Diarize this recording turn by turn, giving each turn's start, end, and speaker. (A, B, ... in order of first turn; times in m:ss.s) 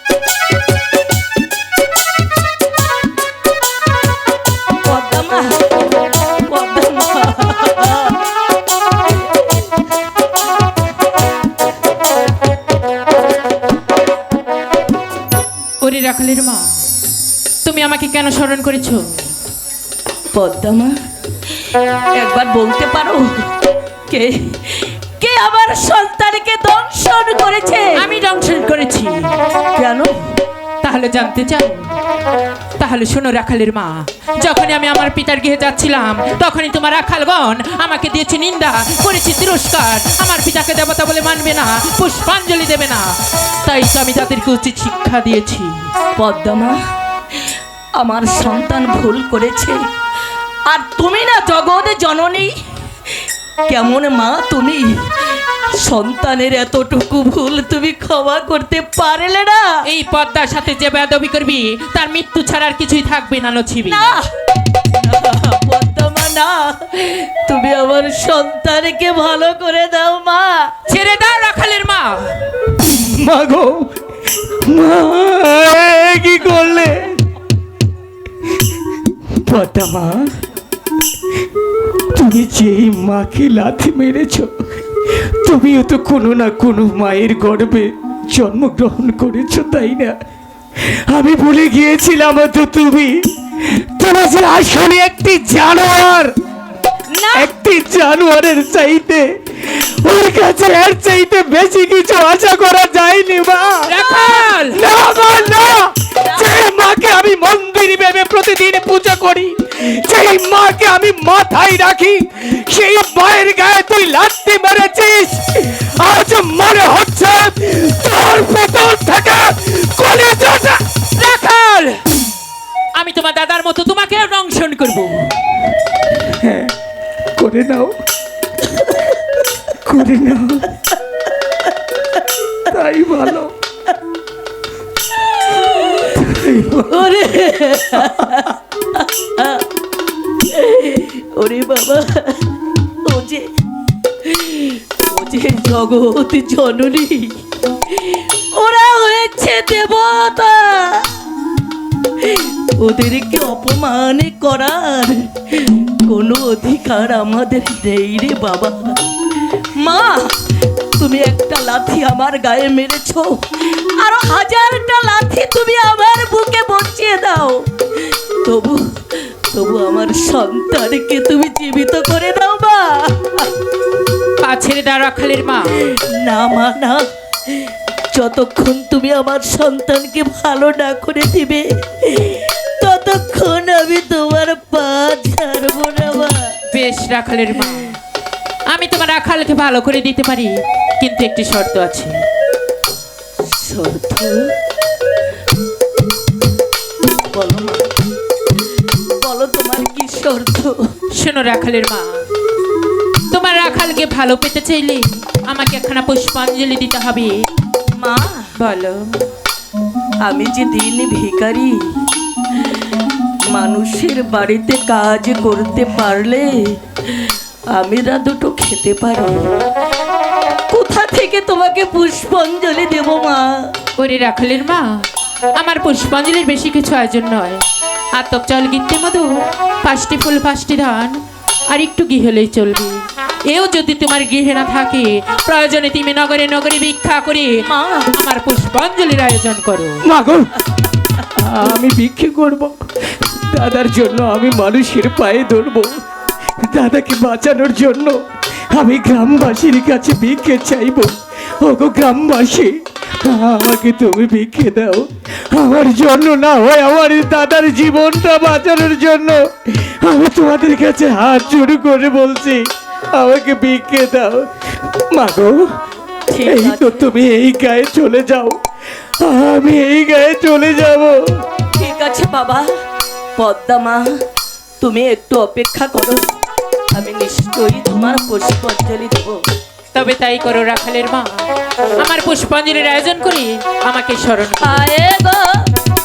0:04.8-0:08.2 A
0:15.8-0:16.8 B
0:17.6-0:19.2 B
0:20.3-0:20.9 A
0:22.1-0:23.5 A
0:24.1-0:28.1 A
0:27.9-0:29.4 B
0:29.7-0:30.4 A
0:30.8-0:32.0 B
0:32.8-0:45.9 B
0:46.2-0:46.8 A
0:48.0-0:49.8 A
0:50.7-0:52.5 A
0:53.6-0:59.8 A
0:59.8-1:04.1 B
1:03.8-1:04.3 A
1:04.8-1:10.7 A
1:10.9-1:12.5 B
1:12.9-1:13.9 C
1:14.4-1:17.2 C
1:19.4-1:20.4 C
1:22.1-1:30.2 C
1:30.8-1:36.3 C
1:37.1-1:37.5 A
1:37.3-1:44.0 C
1:43.9-1:44.8 B
1:44.0-1:44.3 A
1:44.7-2:01.1 C
1:46.2-1:46.5 A
2:01.2-2:02.0 B
2:02.9-2:05.3 B
2:06.1-2:06.7 C
2:07.4-2:07.9 C
2:09.7-2:10.8 C
2:12.6-2:13.5 C
2:15.4-2:16.1 A
2:16.0-2:17.2 C
2:16.9-2:19.6 A
2:18.1-2:18.4 C
2:20.5-2:22.4 A
2:23.0-2:23.5 A
2:24.2-2:31.2 A
2:32.2-2:39.1 A
2:39.7-2:53.5 A
2:54.4-2:55.9 B
2:55.8-3:06.6 A
3:06.7-3:08.0 B
3:08.7-3:12.2 B
3:13.5-3:14.5 A
3:17.3-3:17.9 A
3:19.2-3:20.8 A
3:21.1-3:22.2 B
3:23.3-3:27.4 B
3:28.0-3:28.5 A
3:28.6-3:29.2 B
3:30.2-3:31.8 A
3:33.5-3:39.5 A
3:40.7-3:43.7 A
3:44.0-3:45.1 B
3:45.6-3:47.6 B
3:48.2-3:57.5 B
3:57.6-3:58.1 A
3:58.1-4:00.0 B
4:00.0-4:00.5 C
4:01.3-4:06.0 C
4:06.6-4:08.2 C
4:08.7-4:22.6 C
4:23.2-4:25.6 C
4:26.3-4:27.1 A
4:26.4-4:28.6 C
4:29.2-4:31.4 C
4:31.8-4:32.7 A
4:33.4-4:34.2 A
4:34.8-4:36.3 A
4:36.9-4:39.4 A
4:39.9-4:41.4 B
4:42.0-4:44.8 B
4:44.6-4:45.7 A